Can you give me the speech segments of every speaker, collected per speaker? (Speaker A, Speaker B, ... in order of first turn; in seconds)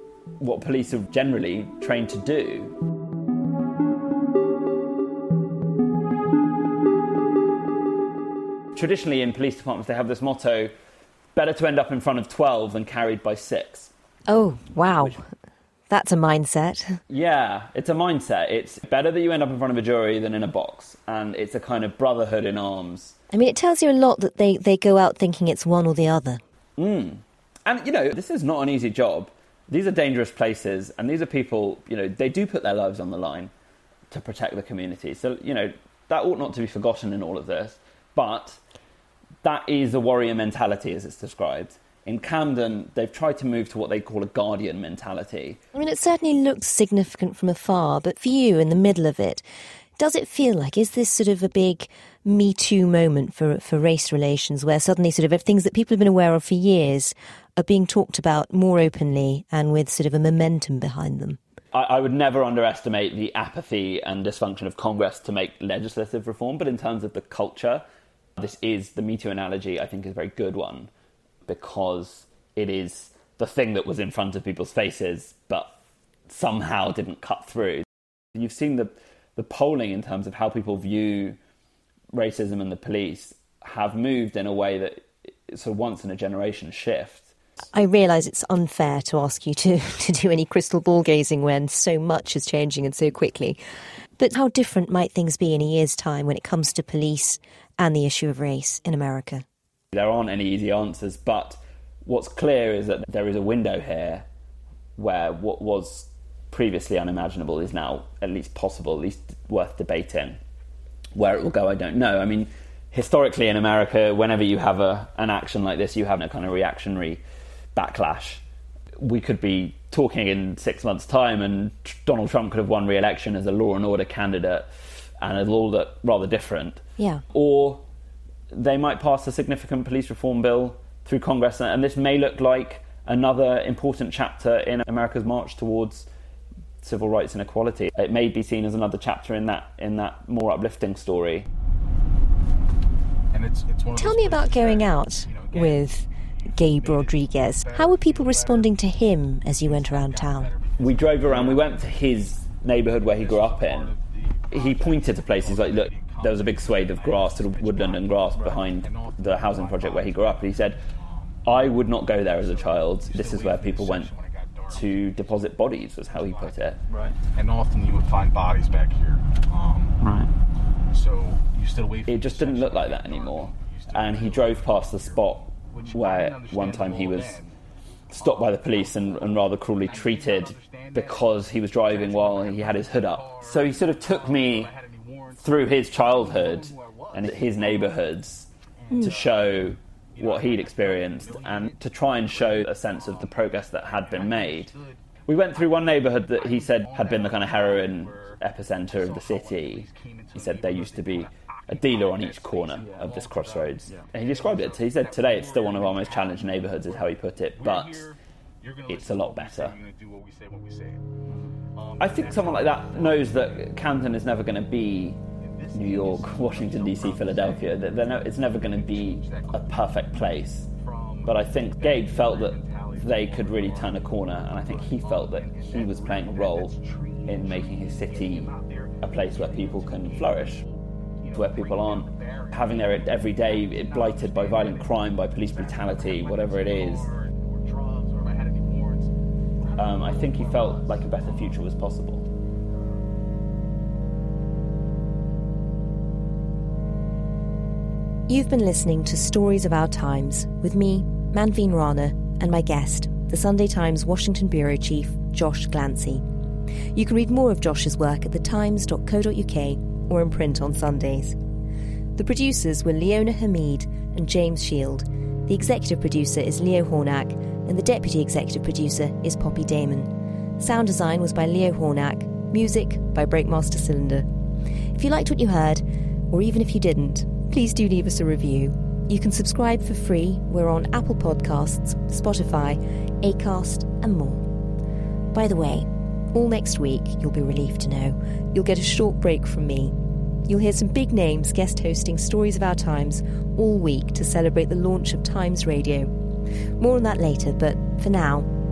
Speaker A: 0.4-2.7, 8.7-10.7, 11.3-13.9, 17.1-23.1, 26.8-33.5, 34.1-38.6, 39.4-45.6, 61.7-67.8, 68.4-70.9, 71.5-75.7, 76.3-81.4, 82.1-87.3, 99.9-104.2, 105.0-110.4, 111.1-117.2, 117.7-118.4, 119.0-124.7, 125.2-127.8, 128.5-136.1, 136.8-141.5, 150.8-153.9, 154.5-160.8, 161.4-164.1, 164.7-166.8, 170.0-170.3, 172.1-177.4, 178.1-184.7, 185.4-194.7, 195.2-208.1, 208.9-209.8, 212.0-215.2, 215.7-220.7, 221.2-230.6, 231.3-237.1, 239.8-242.2
Speaker B: 14.3-15.2, 15.9-17.0, 23.3-26.4, 45.7-49.4, 50.0-61.4, 87.7-93.6, 94.2-99.4, 143.9-150.5, 188.9-189.1, 248.3-256.2, 256.9-261.4, 262.1-274.3, 274.9-284.4, 285.3-296.1, 296.8-298.5
Speaker C: 143.3-148.8, 149.6-152.0, 153.0-161.4, 162.2-165.1, 166.1-170.0, 170.9-177.5, 178.1-188.1, 188.8-211.0, 211.7-214.1, 215.4-241.6